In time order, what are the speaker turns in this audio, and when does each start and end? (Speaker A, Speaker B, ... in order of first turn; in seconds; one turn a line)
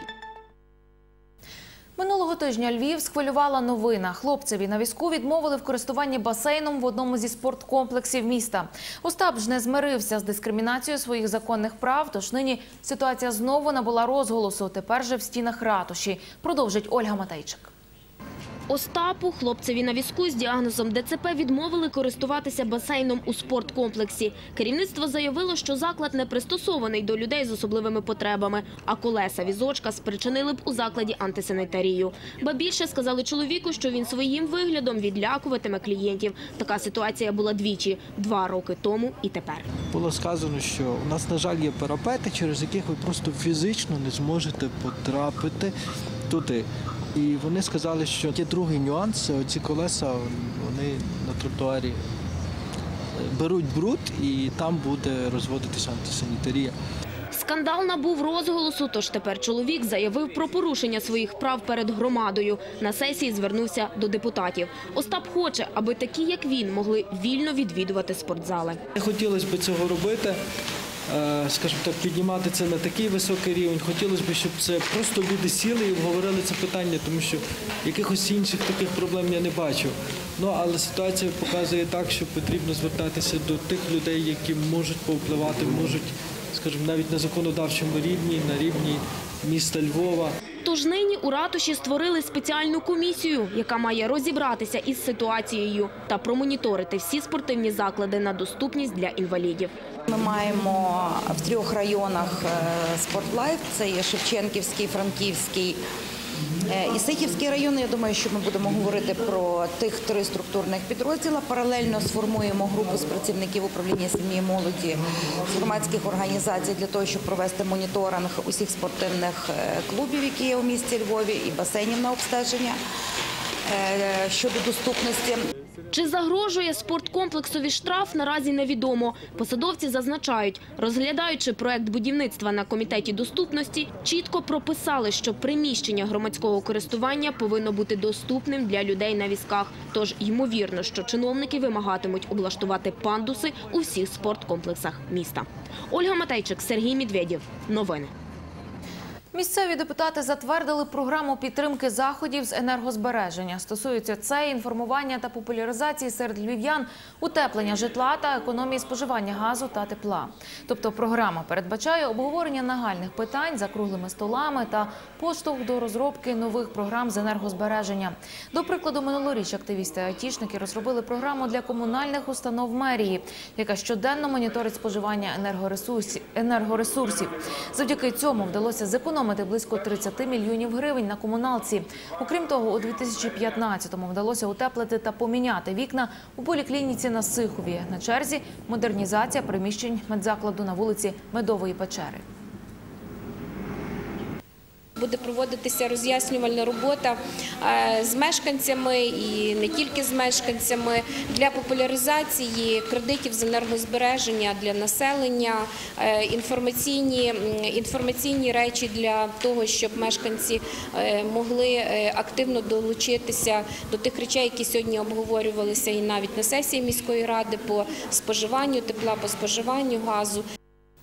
Speaker A: 2.0-17.7
Speaker B: 18.7-39.7
Speaker C: 39.9-45.7
Speaker C: 46.3-52.0
Speaker C: 53.2-56.7
Speaker B: 57.3-68.8
Speaker C: 68.9-70.4
Speaker C: 71.1-90.3
Speaker B: 90.6-99.7
Speaker D: 100.1-105.8
Speaker D: 106.7-122.8
Speaker D: 123.7-125.4
Speaker B: 125.9-148.1
Speaker A: 149.3-192.2
Speaker E: 195.0-220.4